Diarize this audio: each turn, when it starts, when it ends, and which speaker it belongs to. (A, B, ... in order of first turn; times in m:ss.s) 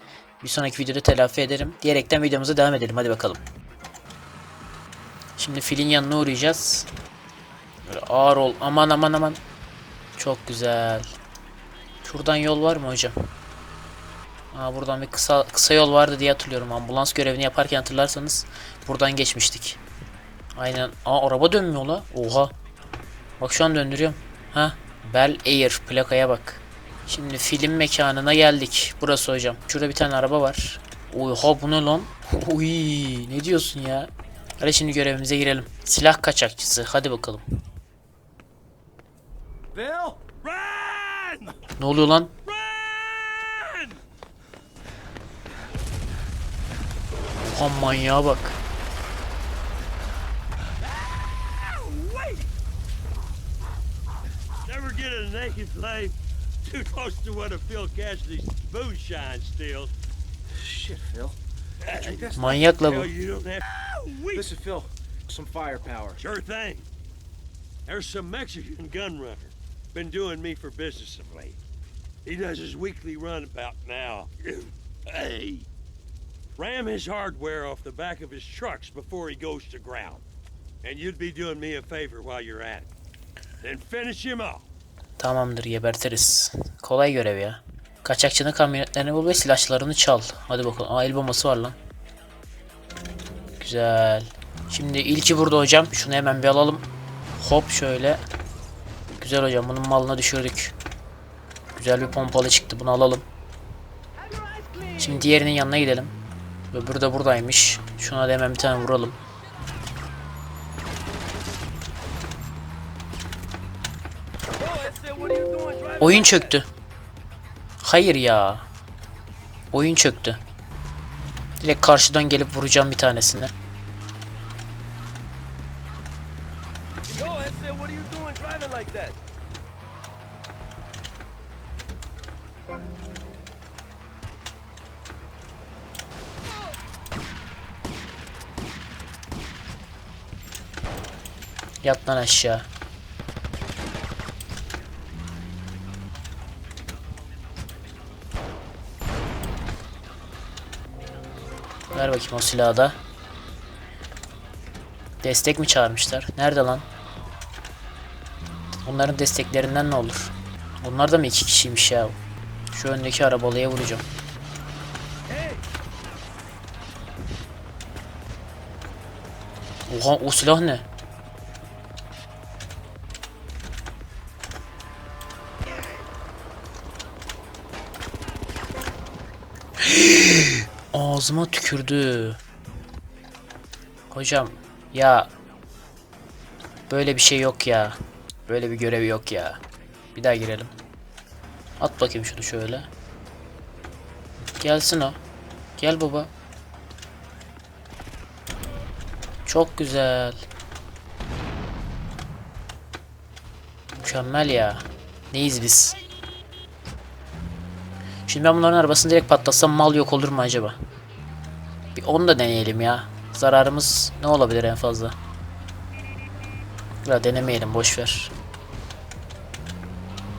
0:00.4-0:03.4 A
0:05.4-0:06.9 A
0:07.8-0:09.4 A
0:10.2-0:11.0 A
0:12.0-0:13.1 A
0:14.5-0:19.8 A
0:20.6-0:22.5 A
0:23.4-0:37.4 A
0:39.7-0:40.2 B
0:40.4-0:41.6 C
0:41.8-0:42.3 A
0:42.4-0:44.0 C
0:47.4-0:48.6 A
0:51.2-0:52.5 C
0:54.6-0:59.9 C
1:00.6-1:02.5 B
1:01.8-1:04.5 C
1:02.4-1:03.1 A
1:04.3-1:06.2 B
1:06.2-1:06.9 C
1:07.9-1:11.6 C
1:12.2-1:15.7 C
1:16.6-1:20.2 C
1:20.8-1:22.9 C
1:23.6-1:24.6 C
1:25.2-1:31.8 A
1:33.6-1:36.8 A
1:37.4-1:38.2 A
1:39.1-1:40.7 A
1:41.7-1:43.2 A
1:44.5-1:44.9 B
1:44.9-1:46.1 A
1:46.7-1:49.2 A
1:54.6-1:56.1 B
1:56.0-1:56.7 A
1:57.8-1:58.7 A
1:59.7-2:00.4 A
2:01.6-2:03.5 A
2:07.1-2:09.2 B
2:21.8-2:22.7 A
2:31.9-2:33.0 A
2:35.2-2:36.8 A
2:38.8-2:42.2 A
2:42.7-2:44.0 A
2:45.3-2:45.6 B
2:49.9-2:50.8 A
2:59.8-3:02.4 A
3:04.1-3:05.3 A
3:06.9-3:09.6 A
3:10.1-3:10.7 A
3:11.8-3:12.9 A
3:14.6-3:15.2 A
3:15.8-3:16.3 A
3:19.4-3:20.4 A
3:24.0-3:26.0 A
3:28.3-3:30.8 A
3:32.0-3:35.2 A
3:37.0-3:38.3 A